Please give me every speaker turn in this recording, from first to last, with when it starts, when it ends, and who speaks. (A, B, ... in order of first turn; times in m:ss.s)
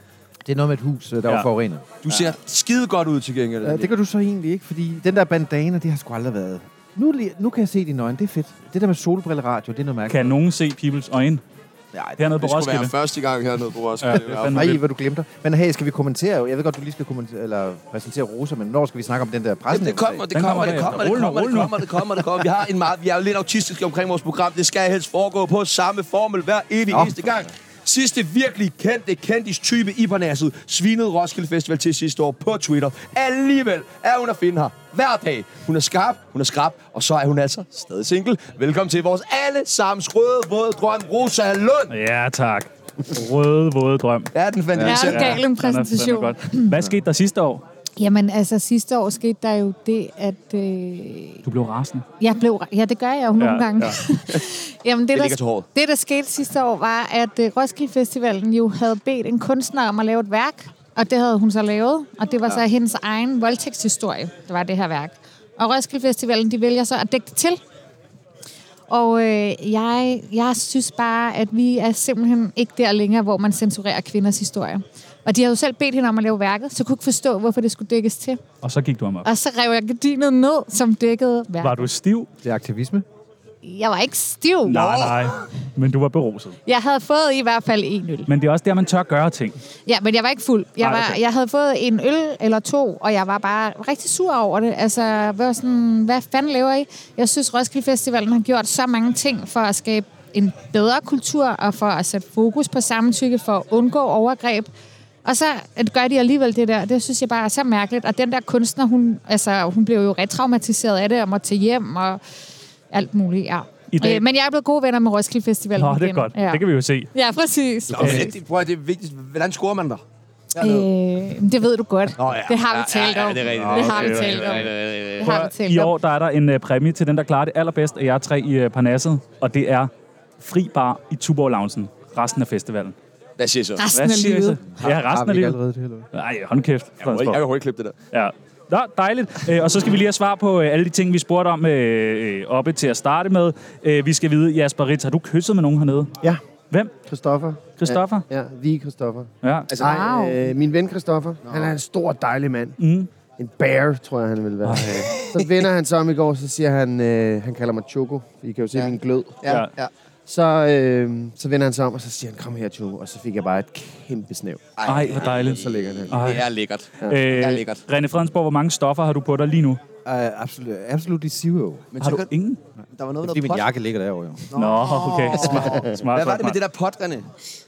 0:00.4-0:02.4 A
0:02.0-0:03.9 B
0:03.6-0:10.4 A
0:10.1-0:11.4 C
0:11.9-0:12.2 A
0:12.2-0:12.9 C
0:12.4-0:14.6 B
0:14.0-0:14.8 C
0:14.3-0:20.9 A
0:19.7-0:41.9 B
0:20.3-0:21.9 C
0:41.9-0:44.3 C
0:44.3-0:45.4 B
0:44.8-0:45.2 A
0:44.8-0:46.8 D
0:44.9-0:47.6 C
0:48.0-0:51.4 D
0:51.4-0:52.1 C
0:52.2-1:07.6 D
0:53.4-0:54.0 C
0:55.1-0:55.7 B
1:08.9-1:18.4 D
1:18.6-1:19.3 C
1:19.2-1:21.9 D
1:21.6-1:22.3 C
1:22.4-1:23.0 A
1:23.6-1:24.9 D
1:24.6-1:26.6 C
1:24.8-1:25.3 B
1:26.7-1:28.3 D
1:28.3-1:29.6 C
1:29.9-1:44.7 D
1:30.8-1:31.2 C
1:45.2-1:52.2 D
1:52.9-1:58.3 D
1:53.9-1:54.2 C
1:55.8-1:57.1 C
1:57.9-2:00.0 B
1:58.0-1:58.3 C
2:00.5-2:00.8 B
2:00.6-2:05.9 D
2:02.2-2:05.5 B
2:03.5-2:04.6 A
2:03.9-2:04.5 C
2:05.2-2:13.0 C
2:13.4-2:13.8 B
2:13.8-2:14.6 D
2:13.9-2:15.6 C
2:14.8-2:16.1 A
2:16.1-2:17.4 C
2:17.0-2:18.0 B
2:18.1-2:26.2 C
2:27.0-2:32.8 E
2:27.8-2:28.2 C
2:29.4-2:29.7 C
2:29.7-2:30.0 B
2:29.8-2:30.4 D
2:31.4-2:31.7 B
2:32.8-2:33.1 C
2:33.4-2:39.7 E
2:34.6-2:35.4 C
2:38.7-2:39.9 B
2:40.3-2:46.2 E
2:44.8-2:47.8 B
2:44.9-2:46.5 C
2:47.1-2:49.8 C
2:50.0-2:51.9 A
2:51.9-2:52.3 B
2:52.0-2:52.6 C
2:52.9-2:53.7 B
2:53.2-2:54.5 A
2:54.5-2:57.3 B
2:54.6-2:56.6 C